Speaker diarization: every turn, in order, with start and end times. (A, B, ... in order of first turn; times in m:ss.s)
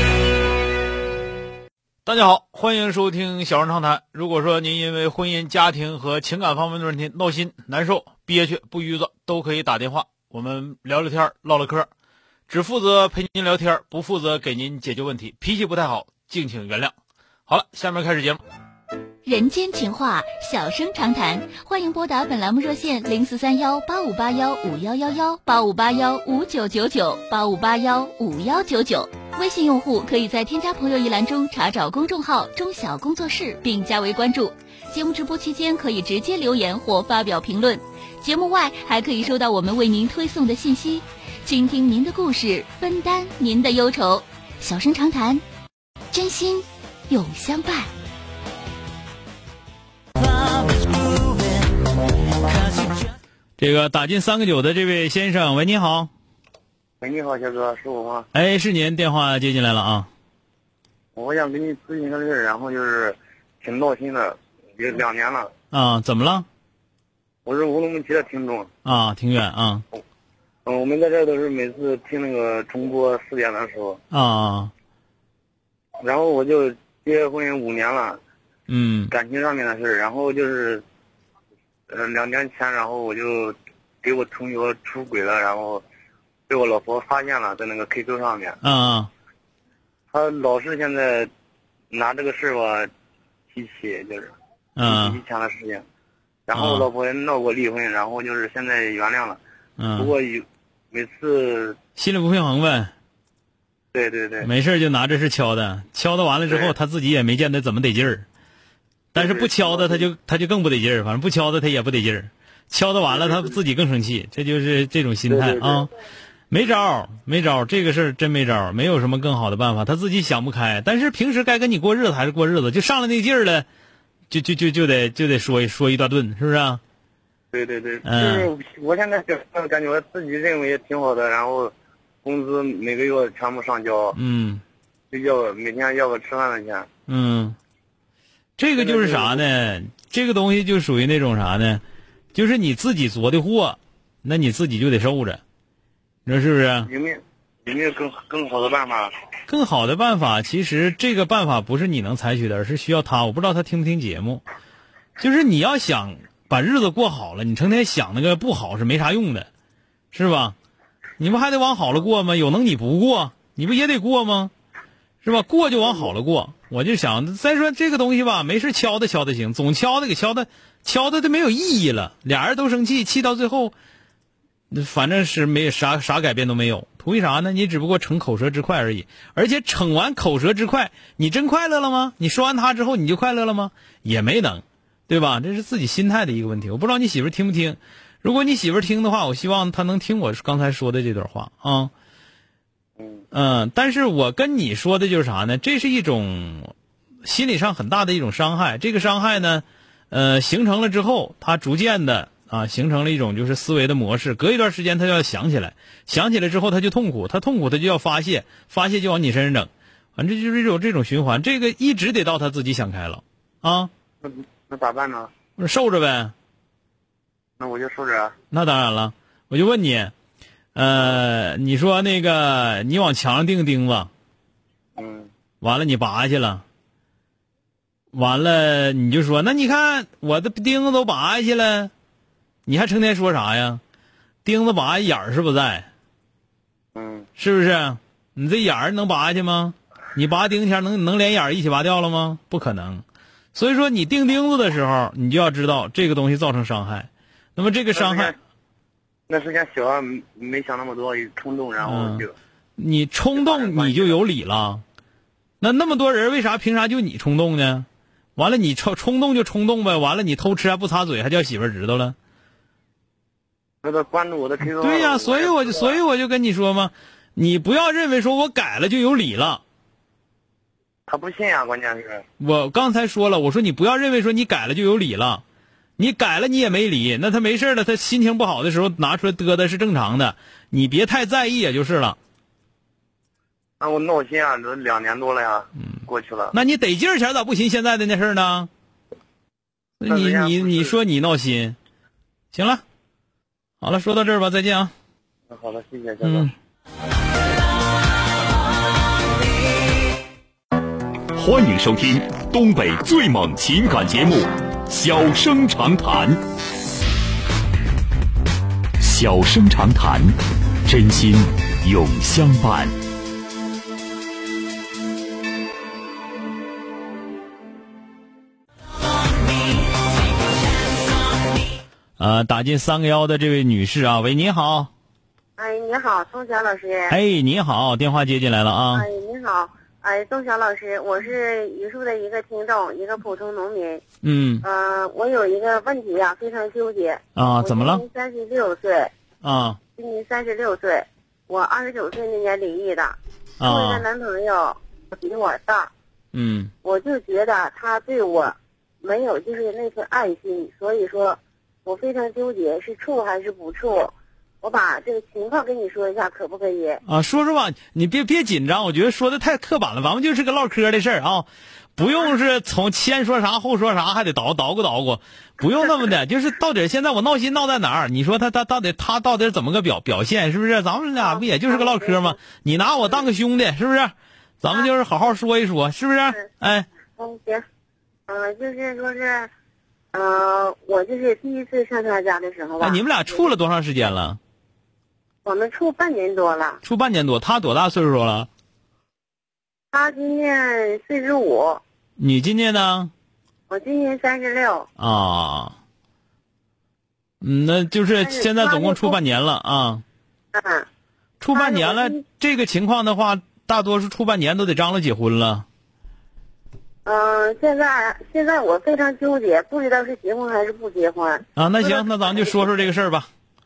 0:02.0-0:11.9 A
0:12.5-0:16.9 A
0:17.5-0:18.4 A
0:19.2-0:45.4 B
0:46.1-0:47.9 B
0:50.4-0:51.3 B
0:53.6-0:56.1 A
0:57.0-0:58.2 C
0:58.3-1:00.1 A
1:01.2-1:05.5 C
1:05.7-1:06.4 A
1:07.4-1:08.7 C
1:08.8-1:09.8 A
1:10.6-1:14.0 C
1:14.1-1:14.7 A
1:16.0-1:18.2 C
1:18.7-1:19.1 A
1:19.1-1:20.8 C
1:21.9-1:25.8 C
1:26.5-1:28.6 C
1:28.6-1:29.1 A
1:30.1-1:31.3 C
1:31.9-1:32.9 C
1:33.5-1:34.3 C
1:34.8-1:35.2 A
1:34.8-1:35.8 C
1:36.5-1:39.4 C
1:36.6-1:36.9 A
1:39.8-1:40.1 A
1:40.0-1:41.8 C
1:42.0-1:42.9 A
1:43.9-1:44.5 C
1:44.4-1:48.2 A
1:49.1-1:55.9 A
1:49.2-1:50.0 C
1:53.1-1:53.4 C
1:55.3-1:55.8 C
1:56.5-2:03.6 A
2:04.3-2:06.8 A
2:07.5-2:11.7 C
2:08.0-2:08.5 A
2:12.2-2:14.2 C
2:14.1-2:14.6 A
2:15.1-2:16.9 C
2:17.1-2:17.6 A
2:18.6-2:21.8 A
2:18.8-2:19.4 C
2:22.3-2:25.4 A
2:26.2-2:26.9 A
2:26.8-2:29.1 C
2:29.5-2:34.4 A
2:35.2-2:39.5 A
2:40.1-2:40.5 A
2:41.2-2:44.5 A
2:45.2-2:53.7 A
2:54.7-3:11.9 A
3:13.3-3:16.7 A
3:17.2-3:33.9 A
3:34.2-3:35.3 C
3:35.6-3:36.3 A
3:37.6-3:38.3 C
3:38.5-3:40.1 A
3:40.8-3:44.1 A
3:45.0-3:45.3 C
3:45.6-3:46.6 A
3:48.1-3:51.9 A
3:52.7-3:53.8 A
3:54.4-3:55.9 A
3:56.9-3:57.3 C
3:57.4-4:03.0 A
4:03.5-4:08.3 A
4:07.9-4:08.3 C
4:09.3-4:12.3 C
4:11.8-4:12.2 A
4:12.8-4:14.8 A
4:13.3-4:14.2 C
4:15.6-4:17.8 A
4:18.4-4:22.2 A
4:23.8-4:26.0 C
4:24.6-4:29.6 A
4:31.1-4:32.2 C
4:32.4-4:35.4 A
4:36.0-4:42.2 A
4:43.8-4:46.5 C
4:46.5-4:48.7 A
4:50.0-4:51.8 A
4:50.1-4:50.9 C
4:52.5-4:52.8 A
4:53.8-4:54.9 A
4:55.5-4:56.5 C
4:56.2-4:56.5 A
5:01.3-5:06.4 D
5:09.0-5:12.9 D
5:22.2-5:24.9 A
5:25.6-5:27.2 E
5:27.1-5:29.1 A
5:28.9-5:34.0 E
5:34.2-5:34.6 A
5:34.6-5:39.1 E
5:37.4-5:38.0 A
5:39.4-5:39.8 A
5:40.0-5:45.9 E
5:43.6-5:44.0 A
5:46.3-5:46.7 A
5:46.8-5:57.0 E
5:57.0-6:16.9 A
6:11.2-6:12.4 E
6:17.1-6:17.6 E
6:18.3-6:19.5 E
6:20.1-6:23.5 E
6:22.8-6:24.4 A
6:25.4-6:26.8 E
6:26.8-6:28.5 A
6:29.9-6:31.8 E
6:32.2-6:33.1 A
6:33.7-6:34.9 E
6:35.0-6:35.7 A
6:37.4-6:40.0 A
6:38.2-6:39.2 E
6:40.5-6:40.9 E
6:41.4-6:45.6 A
6:41.5-6:42.2 E
6:47.0-6:52.7 E
6:51.6-6:53.3 A